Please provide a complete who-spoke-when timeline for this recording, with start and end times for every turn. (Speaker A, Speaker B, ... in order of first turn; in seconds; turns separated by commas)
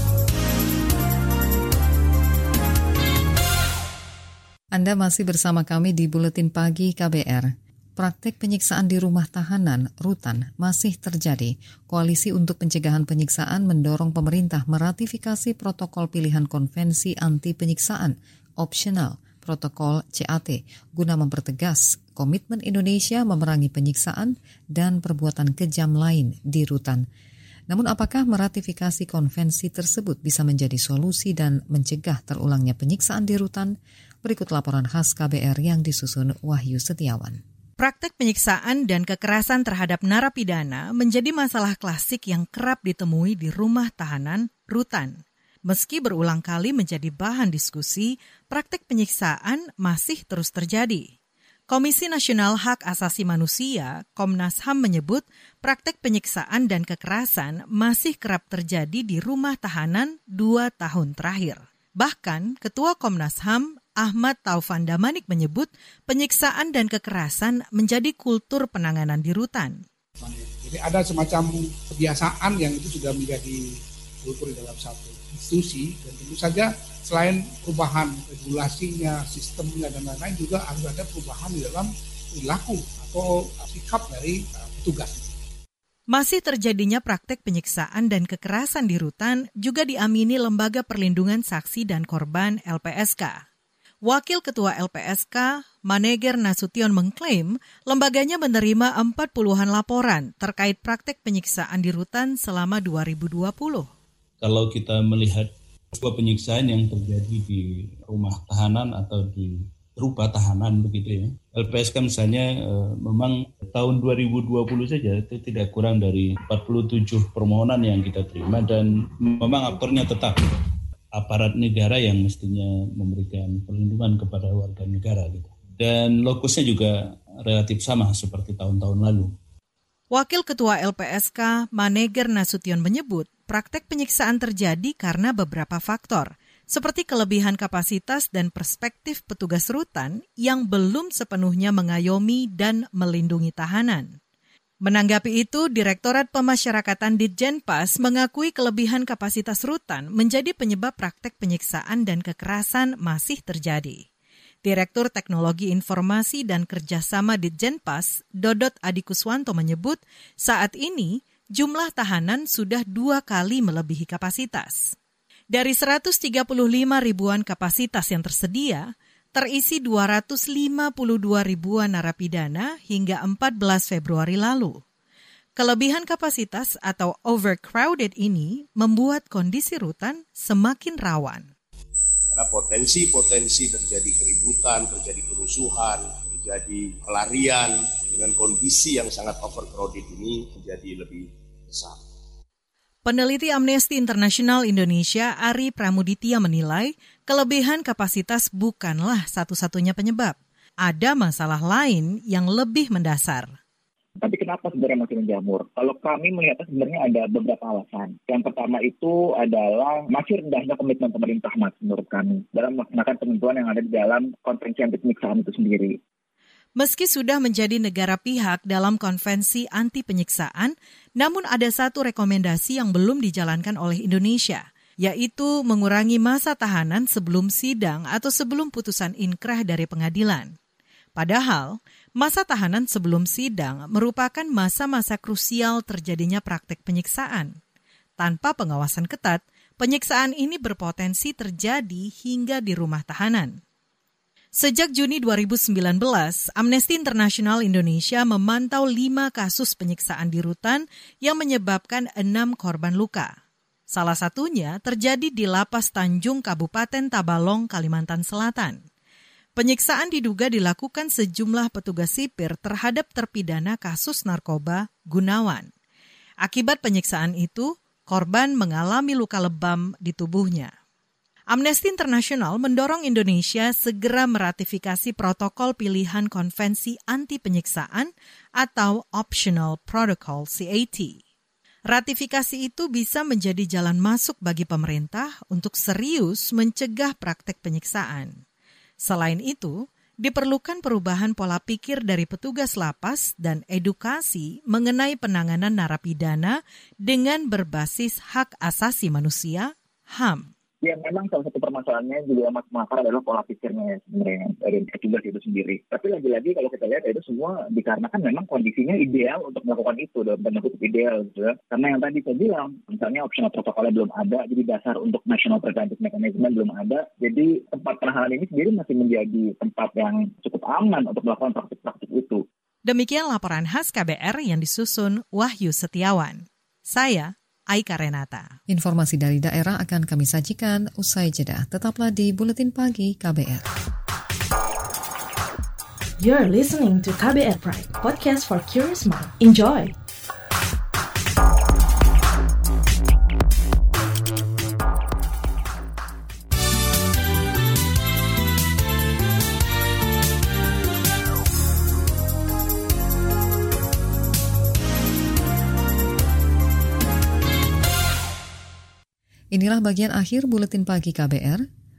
Speaker A: 4.7-27.1, Speaker A: 27.7-37.4, Speaker B: 37.8-51.1, Speaker B: 51.7-69.8, Speaker C: 70.2-85.3, Speaker B: 86.1-93.4, Speaker B: 94.0-103.9, Speaker D: 104.4-120.4, Speaker D: 121.2-129.3, Speaker B: 130.1-144.2, Speaker B: 144.8-154.0, Speaker B: 154.6-164.9, Speaker B: 165.5-174.8, Speaker B: 175.6-181.5, Speaker E: 182.3-192.0, Speaker B: 193.0-203.6, Speaker F: 204.2-216.0, Speaker B: 216.8-230.5, Speaker B: 231.2-237.6, Speaker B: 238.2-243.6, Speaker B: 244.6-253.4, Speaker B: 253.9-258.8, Speaker B: 259.6-265.7, Speaker B: 266.4-270.7, Speaker B: 271.5-281.2, Speaker B: 281.9-288.4, Speaker B: 289.0-300.5, Speaker F: 300.8-322.4, Speaker B: 322.9-328.5, Speaker A: 328.7-333.7, Speaker G: 336.2-339.9, Speaker A: 359.5-361.6